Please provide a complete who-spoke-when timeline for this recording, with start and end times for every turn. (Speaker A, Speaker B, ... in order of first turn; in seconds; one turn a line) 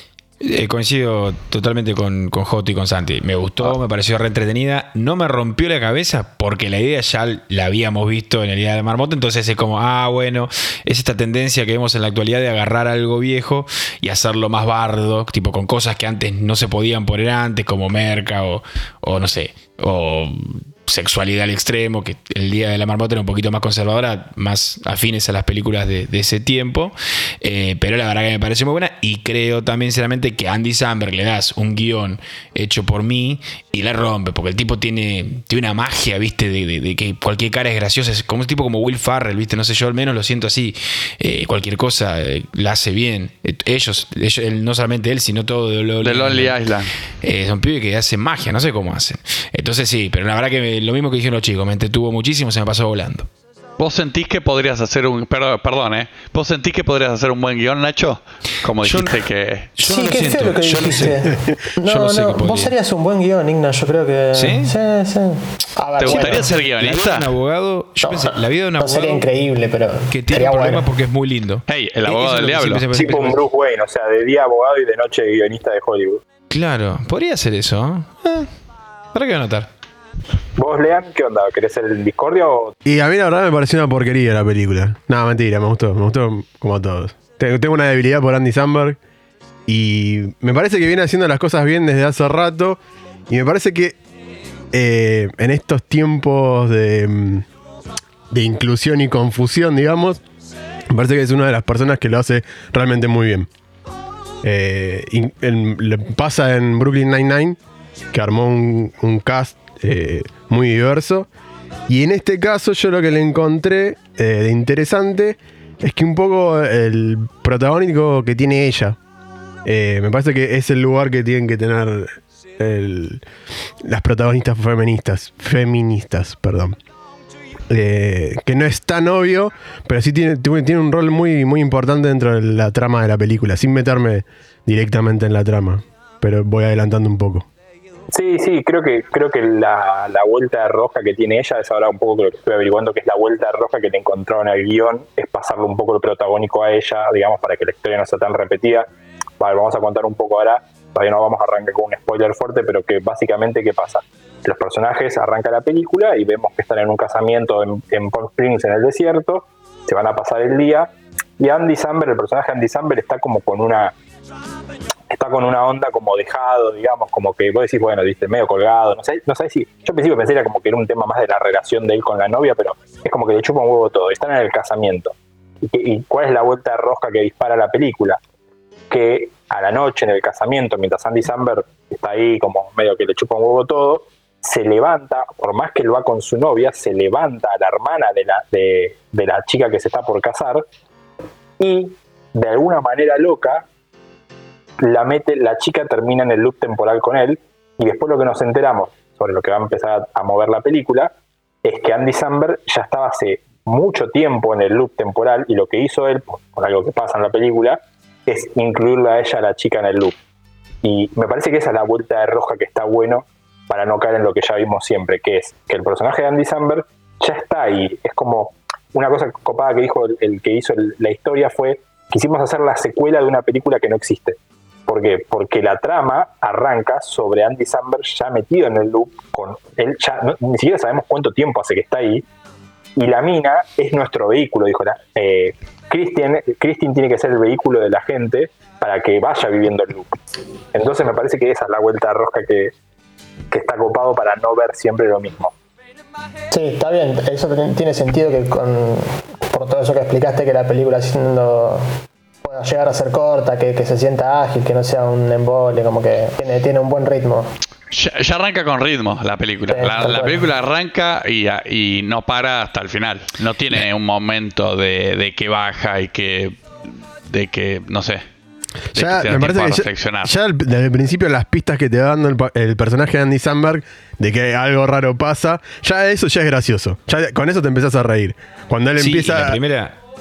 Speaker A: 0.4-46.6
Speaker B: 46.0-46.9
Speaker A: 47.2-53.3
Speaker B: 53.8-59.7
Speaker A: 58.8-59.2
Speaker A: 59.8-62.7
Speaker C: 59.8-66.5
Speaker A: 64.3-64.7
Speaker A: 66.0-69.2
Speaker B: 66.0-67.3
Speaker C: 68.0-70.9
Speaker A: 70.1-73.4
Speaker B: 71.7-72.8
Speaker D: 72.9-76.2
Speaker A: 76.5-78.5
Speaker A: 79.1-79.7
Speaker D: 80.6-82.7
Speaker E: 82.8-89.0
Speaker E: 89.7-94.0
Speaker E: 94.7-97.5
Speaker E: 98.3-100.2
Speaker E: 100.9-103.5
Speaker E: 104.4-107.6
Speaker E: 108.1-111.3
Speaker E: 111.9-119.0
Speaker E: 119.6-123.2
Speaker E: 123.8-126.8
Speaker E: 127.7-137.5
Speaker D: 138.1-148.9
Speaker D: 149.4-163.9
Speaker D: 165.1-178.2
Speaker D: 178.9-190.6
Speaker D: 191.6-193.7
Speaker D: 194.8-210.2
Speaker D: 210.8-232.2
Speaker D: 233.0-240.1
Speaker D: 240.7-242.7
Speaker D: 243.5-245.5
Speaker C: 246.5-251.9
Speaker C: 252.4-257.5
Speaker B: 257.9-266.6
Speaker C: 259.7-260.5
Speaker B: 267.3-268.2
Speaker B: 268.9-270.3
Speaker E: 268.9-279.6
Speaker A: 279.0-280.0